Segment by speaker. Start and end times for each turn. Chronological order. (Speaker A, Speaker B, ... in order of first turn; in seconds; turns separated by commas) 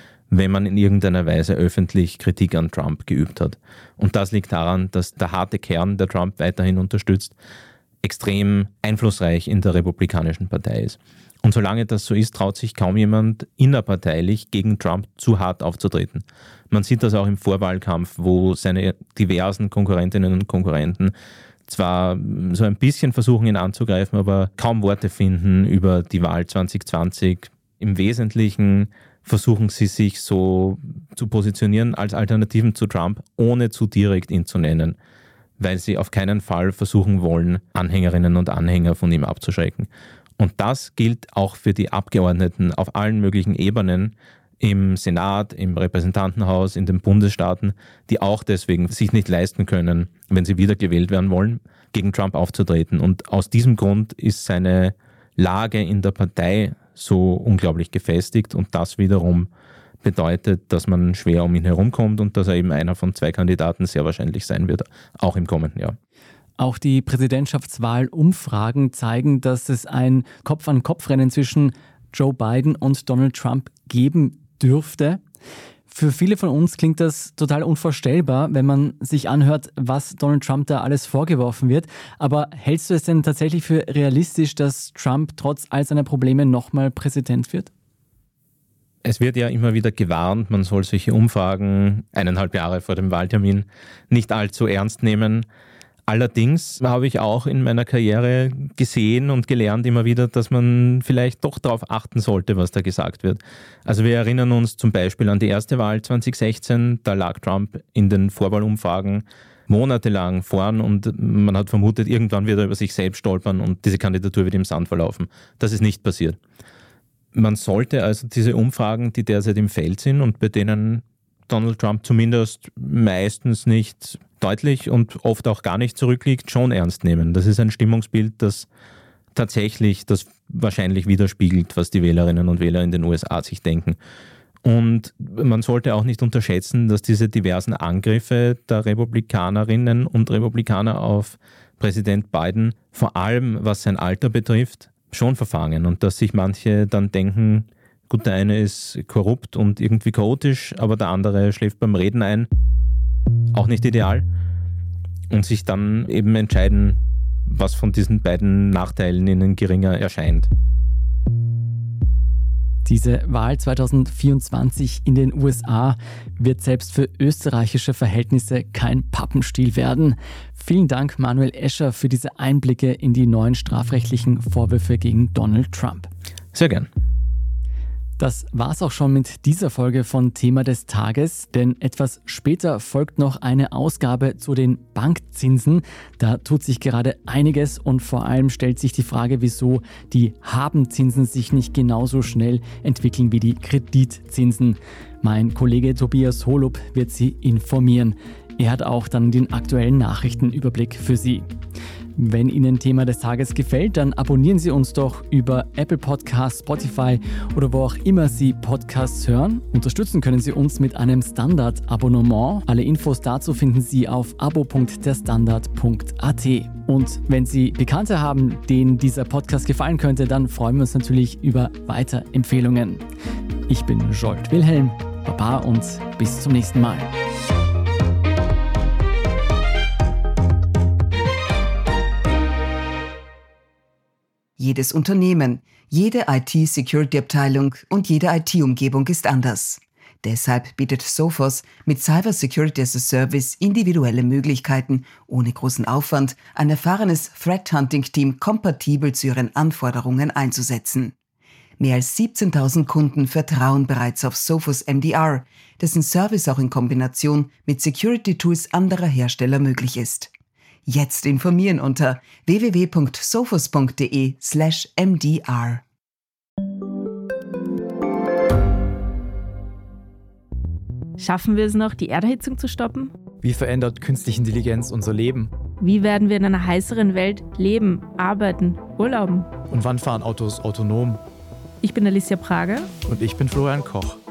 Speaker A: 0.3-7.3, Speaker A: 8.0-21.1, Speaker A: 21.7-35.0, Speaker A: 35.6-59.5, Speaker A: 60.0-66.0, Speaker B: 66.6-75.2, Speaker B: 75.9-87.7, Speaker A: 89.0-95.5, Speaker A: 96.1-116.4, Speaker A: 117.3-128.7, Speaker A: 129.3-134.0, Speaker A: 134.6-152.5, Speaker A: 153.5-154.3, Speaker A: 155.3-160.5, Speaker B: 162.8-176.1, Speaker A: 176.5-176.9, Speaker B: 178.2-201.5, Speaker B: 202.2-223.0, Speaker B: 223.7-227.1, Speaker C: 234.6-251.1, Speaker C: 251.8-260.3, Speaker C: 260.9-265.8, Speaker D: 271.2-273.1, Speaker E: 273.4-275.5, Speaker D: 275.8-279.5, Speaker E: 279.6-281.2, Speaker D: 281.8-282.9, Speaker E: 283.1-284.2